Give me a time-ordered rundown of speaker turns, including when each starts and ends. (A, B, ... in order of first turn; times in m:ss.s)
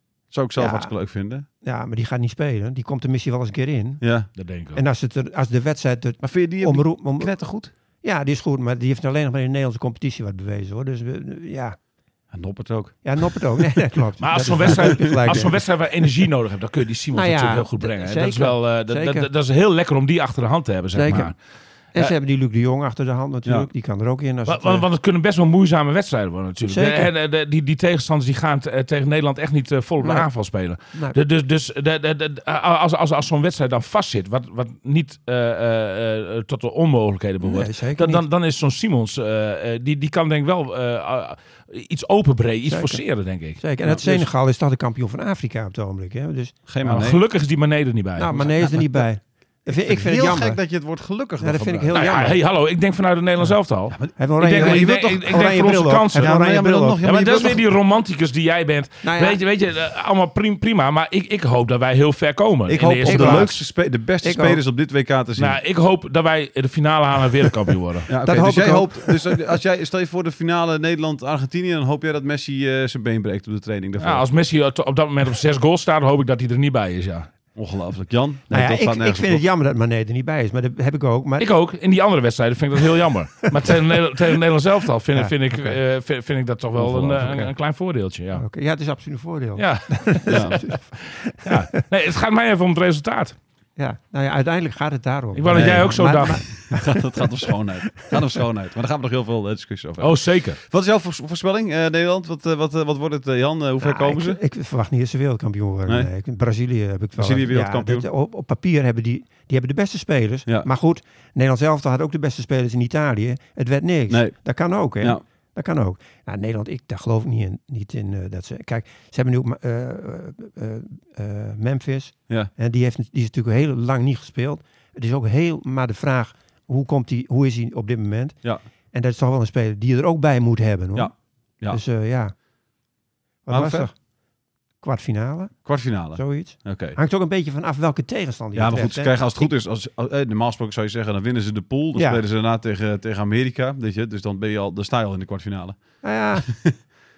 0:00.3-0:01.4 A
0:00.6-0:00.9 B
0:01.6-0:04.0 B
0:04.0-0:04.3 A
0:04.4-0:04.8 C
0:04.7-0:07.3 B
0:06.2-0:07.7 A
0:08.0-0:11.8 B
0:12.3-0:13.3 A
0:13.0-0:15.6 B
0:14.2-0:21.4 C
0:15.2-0:15.4 A
0:17.1-0:19.3 B
0:20.9-0:21.3 B
0:21.9-0:24.9 B
0:24.5-0:43.6 C
0:26.7-0:27.1 B
0:30.9-0:31.2 B
0:37.4-0:38.2 B
0:42.7-0:43.0 B
0:43.6-0:46.6 B
0:43.8-0:44.3 A
0:46.7-0:47.2 A
0:46.8-0:48.9 C
0:48.2-0:50.6 B
0:49.7-0:52.2 A
0:51.4-0:52.4 B
0:51.9-0:56.3 C
0:53.9-0:55.6 A
0:54.1-0:57.0 B
0:56.1-0:57.7 A
0:57.0-1:03.6 C
0:59.0-0:59.4 B
1:02.7-1:05.6 A
1:03.0-1:03.5 B
1:04.2-1:04.6 B
1:05.4-1:08.1 C
1:08.1-1:14.3 A
1:08.2-1:09.6 B
1:14.0-1:17.3 C
1:17.6-1:19.4 A
1:18.5-1:21.5 B
1:21.4-1:28.4 C
1:23.4-1:24.2 B
1:25.1-1:25.8 B
1:26.8-1:27.5 A
1:27.2-1:27.5 B
1:28.3-1:31.8 B
1:29.6-1:33.4 C
1:30.3-1:30.6 A
1:33.8-1:38.1 B
1:35.4-1:36.4 C
1:35.5-1:44.4 A
1:40.0-1:40.6 C
1:43.8-2:08.4 B
1:47.1-1:48.1 A
1:54.1-1:54.4 A
2:08.9-2:12.3 B
2:11.0-2:11.8 A
2:13.4-2:14.0 B
2:13.5-2:13.9 A
2:14.8-2:19.5 B
2:15.6-2:17.0 A
2:18.6-2:26.7 A
2:22.0-2:22.2 B
2:26.0-2:26.5 B